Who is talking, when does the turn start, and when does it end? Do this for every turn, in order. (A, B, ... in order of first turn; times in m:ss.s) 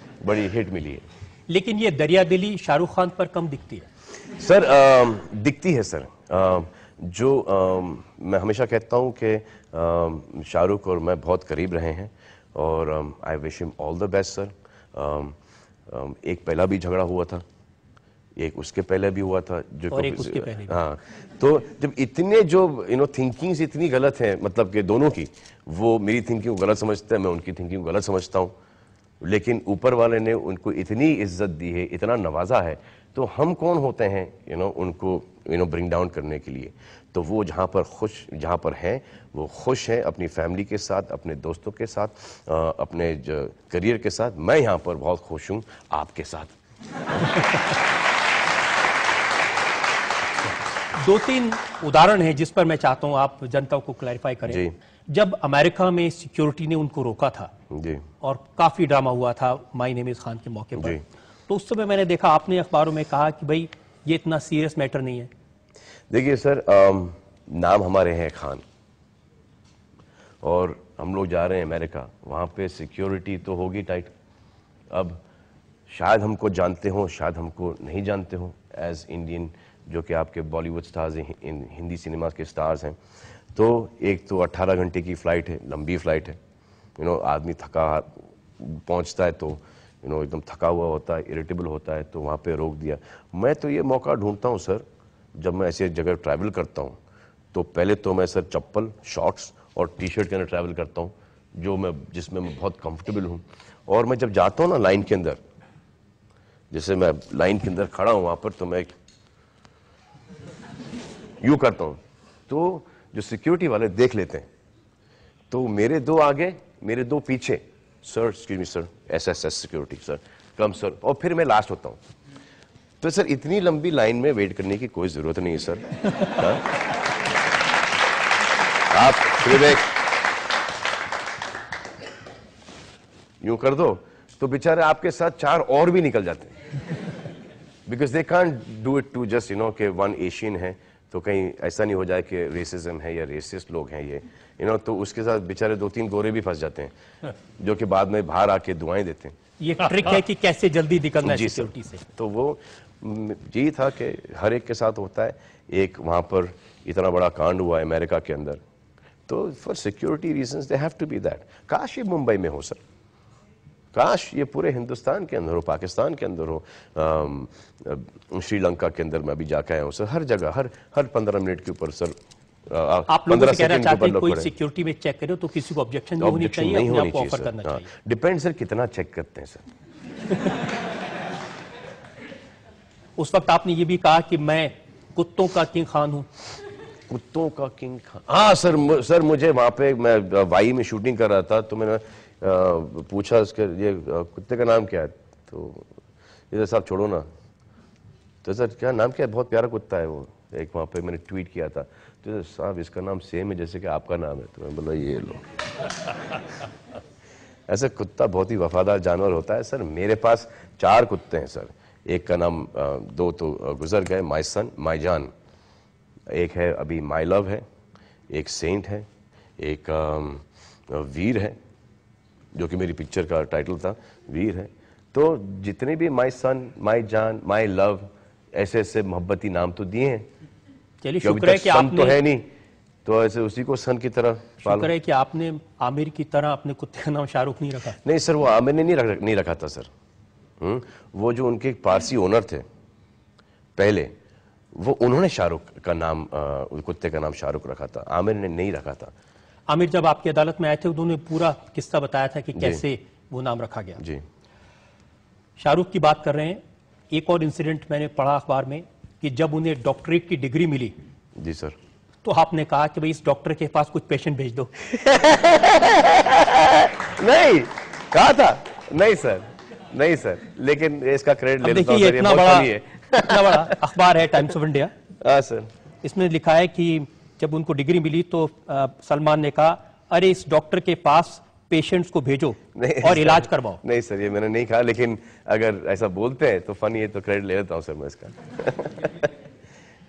0:00.2-0:01.0 A
0:01.5-0:03.9 B
0:04.3-0:17.4 A
0:18.4-0:28.5 A
0:19.9-0:20.8 B
0:29.2-0:46.5 A
0:51.0-0:57.5 B
0:54.5-0:54.7 A
0:57.7-0:58.0 A
0:58.2-1:05.3 B
1:00.8-1:01.0 A
1:06.1-1:08.6 A
1:10.4-1:14.1 A
1:14.9-1:15.2 A
1:15.9-1:23.0 A
1:23.5-1:26.4 A
1:27.0-1:37.0 A
1:37.5-1:45.4 A
1:46.7-1:48.9 A
1:51.4-1:54.5 A
1:55.5-2:02.0 A
2:03.0-2:06.8 A
2:08.9-2:10.0 A
2:13.4-2:16.6 A
2:17.9-2:26.9 A
2:27.6-2:29.4 A
2:29.6-2:32.0 B
2:31.2-2:38.6 A
2:39.3-2:42.8 A
2:43.9-2:54.5 A
2:53.1-2:57.8 B
2:56.2-2:59.6 A
3:03.2-3:06.3 B
3:07.1-3:15.9 A
3:16.5-3:17.3 A
3:18.4-3:25.5 A
3:27.7-3:35.3 A
3:36.3-3:37.6 A
3:38.3-3:39.1 A
3:39.6-3:41.6 A
3:42.5-3:50.3 A
3:51.0-3:52.2 B
3:51.2-3:52.5 A
3:53.0-3:54.9 A
3:54.6-3:58.0 B
3:58.0-3:59.9 A
4:00.6-4:02.6 A
4:03.8-4:04.1 A
4:04.7-4:09.1 A
4:09.7-4:14.0 B
4:12.6-4:12.8 A
4:14.0-4:14.2 A
4:15.6-4:21.0 B
4:21.4-4:21.8 A
4:22.2-4:24.7 B
4:24.9-4:33.8 A
4:31.6-4:34.9 B
4:35.2-4:35.7 A
4:36.0-4:43.8 B
4:42.8-4:49.3 A